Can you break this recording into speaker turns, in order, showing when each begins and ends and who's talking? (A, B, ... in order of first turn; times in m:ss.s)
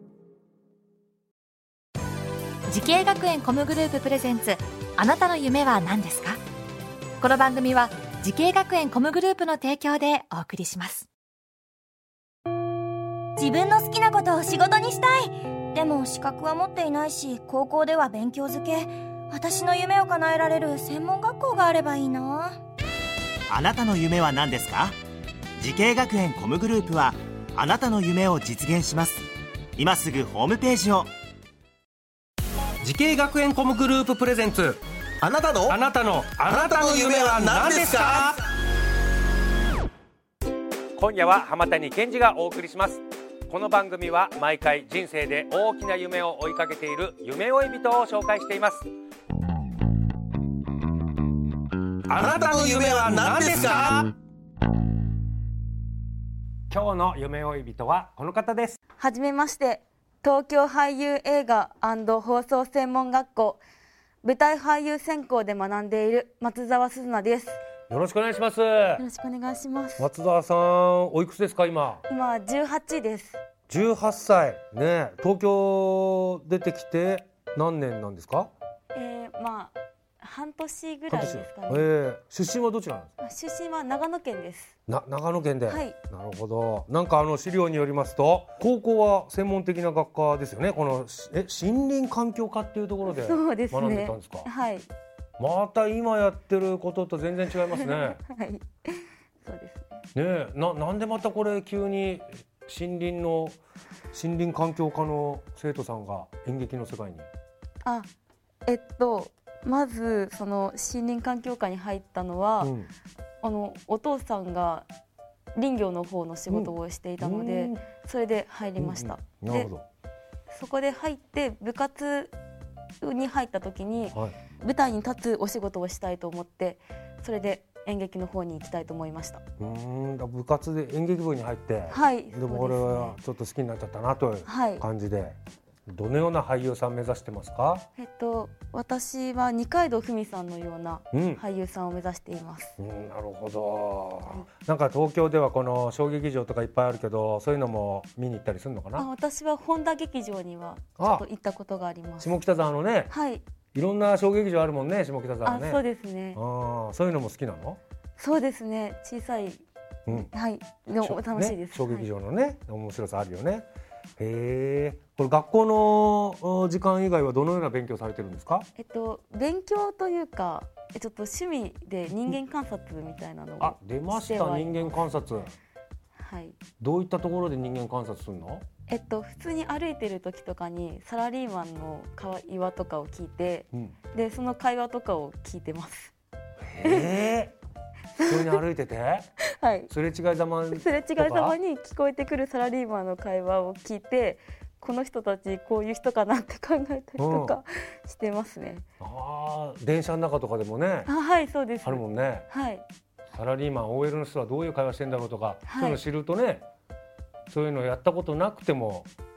0:02.7-0:06.4 A
0:07.2-0:11.1 A
0:13.4-0:22.6 B
0:23.5-0:25.0 C
0:25.6-0:31.1 C
0:32.8-0:34.8 D
0:35.2-0:35.8 E
0:35.6-0:38.4 D
0:36.5-0:38.3 E
0:41.0-0:48.9 D
0:52.1-0:54.0 D
0:52.2-0:54.1 E
0:56.7-0:58.8 D
0:59.0-1:03.6 F
1:04.2-1:07.6 F
1:07.9-1:09.0 D
1:09.0-1:10.1 F
1:10.0-1:12.0 D
1:12.1-1:13.4 F
1:13.7-1:18.5 D
1:18.9-1:21.9 F
1:21.1-1:23.1 D
1:23.2-1:24.7 F
1:24.9-1:34.5 D
1:25.7-1:26.0 F
1:33.0-1:34.9 F
1:35.4-1:38.2 D
1:37.7-1:40.0 F
1:40.1-1:43.6 D
1:44.1-1:47.3 D
1:47.8-1:48.1 F
1:48.7-1:52.7 F
1:52.6-1:52.9 D
1:53.4-1:54.9 F
1:55.5-1:59.7 F
1:56.5-1:57.8 D
1:58.8-1:59.8 D
2:00.5-2:02.3 F
2:03.0-2:09.4 F
2:09.6-2:15.4 D
2:11.9-2:13.2 F
2:14.4-2:14.8 F
2:15.9-2:17.8 D
2:18.0-2:22.8 F
2:21.1-2:21.4 D
2:22.8-2:29.1 D
2:29.0-2:32.3 F
2:31.0-2:31.2 D
2:32.2-2:33.1 D
2:33.1-2:33.4 F
2:33.7-2:35.8 D
2:35.4-2:36.4 F
2:36.3-2:37.8 D
2:38.2-2:42.1 F
2:41.0-2:43.7 D
2:44.2-2:48.7 D
2:48.8-2:55.1 F
2:53.6-2:55.5 D
2:56.2-2:56.6 F
2:56.8-2:58.6 D
2:58.9-3:06.1 F
3:06.7-3:07.5 D
3:06.8-3:07.1 F
3:08.2-3:08.6 F
3:08.2-3:09.3 D
3:09.5-3:09.9 F
3:09.9-3:11.6 D
3:10.7-3:18.8 F
3:17.2-3:17.6 D
3:19.0-3:21.1 D
3:21.0-3:22.8 F
3:21.8-3:22.5 D
3:23.3-3:26.6 D
3:25.6-3:26.0 F
3:27.5-3:29.1 D